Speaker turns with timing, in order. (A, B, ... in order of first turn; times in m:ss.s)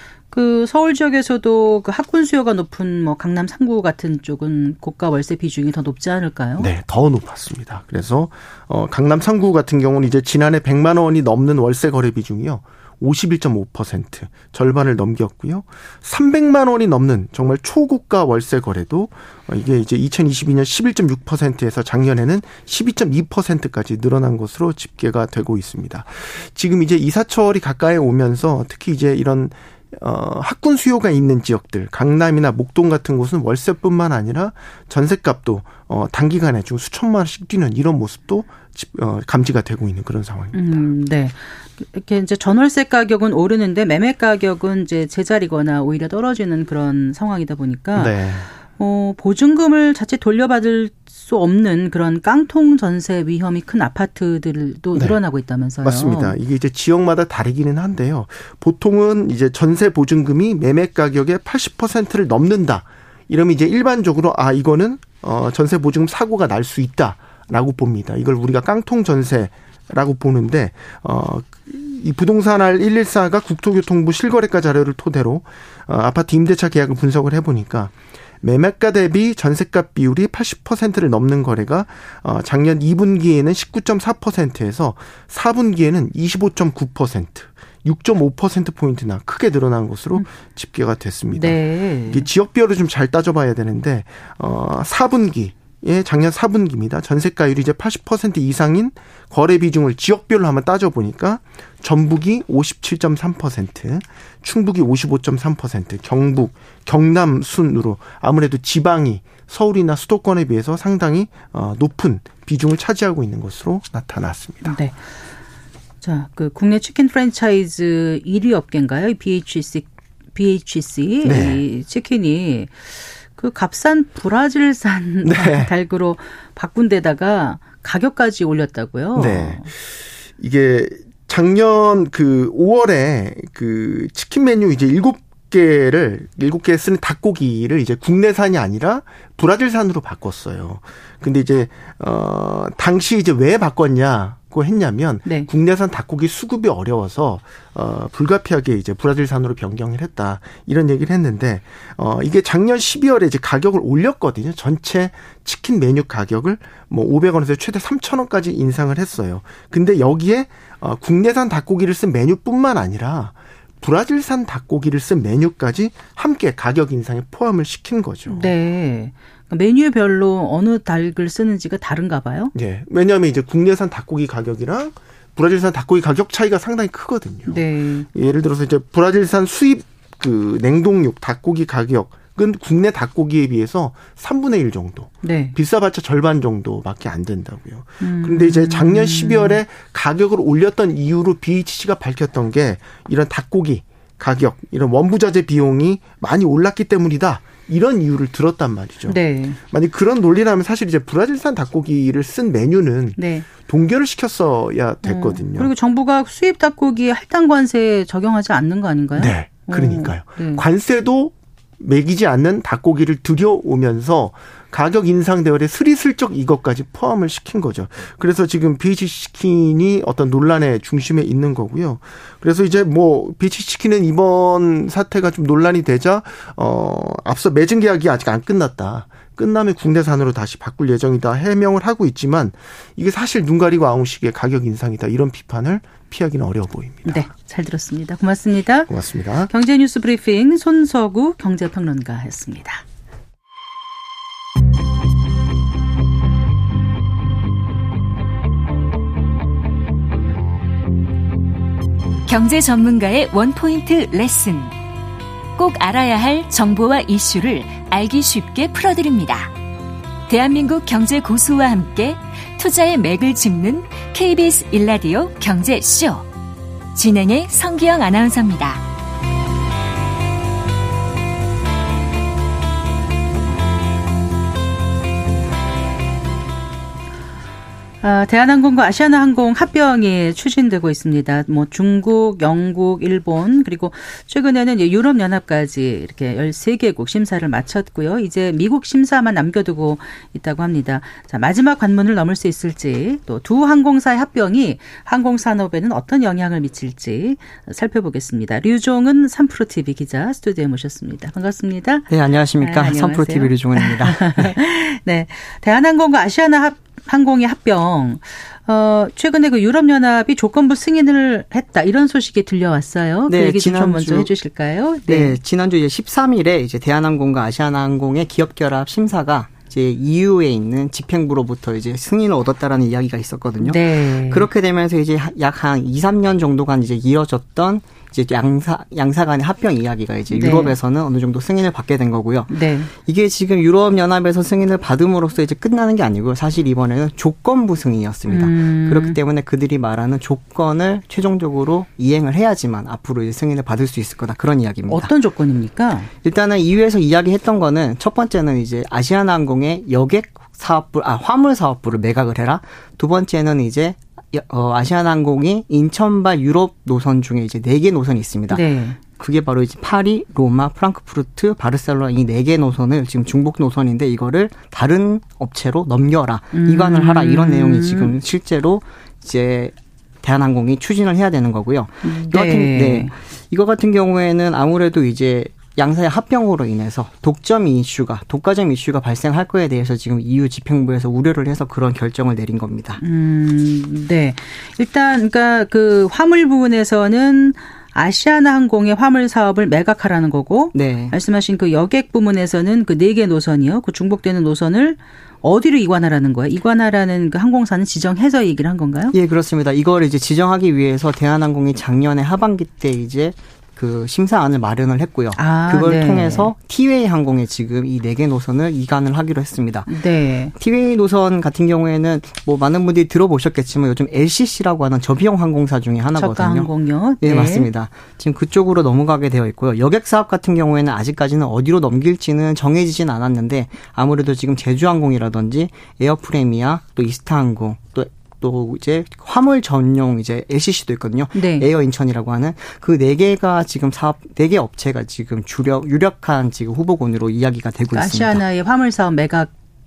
0:00.3-0:06.7 A
0:06.6-0:40.8 B
0:40.5-0:48.2 A
0:47.9-0:48.5 B
0:48.8-0:56.4 A
0:55.8-1:54.8 B
1:31.3-1:32.2 A
1:54.6-1:54.9 A
1:56.0-2:09.7 A
2:01.2-2:01.6 B
2:05.2-2:05.7 B
2:09.2-2:48.5 B
2:48.3-2:52.5 A
2:52.5-3:25.7 B
2:57.5-2:58.1 A
3:05.2-3:05.6 A
3:08.0-3:09.6 A
3:19.1-3:19.6 A
3:23.2-3:23.5 A
3:25.0-3:30.6 A
3:29.2-3:57.3 B
3:57.0-3:58.9 A
3:58.9-3:59.5 B
3:59.5-4:02.8 A
4:12.2-4:14.7 C
4:15.6-4:19.5 C
4:20.3-4:26.3 C
4:26.9-4:28.8 C
4:38.0-5:15.4 A
5:02.1-5:04.6 D
5:13.3-5:14.3 D
5:15.1-5:45.1 D
5:23.6-5:24.5 A
5:30.3-5:30.8 A
5:32.5-5:32.9 A
5:38.3-5:39.2 A
5:44.9-5:46.1 A
5:46.2-6:23.0 D
5:58.5-5:59.0 A
6:06.5-6:08.1 A
6:12.0-6:13.1 A
6:23.0-6:39.1 A
6:30.7-6:31.1 D
6:39.1-6:49.9 D
6:45.4-6:46.5 A
6:49.9-6:50.5 A
6:50.6-6:56.7 D
6:56.2-6:57.7 A
6:57.2-7:18.4 D
7:11.3-7:11.7 A
7:17.9-7:19.5 A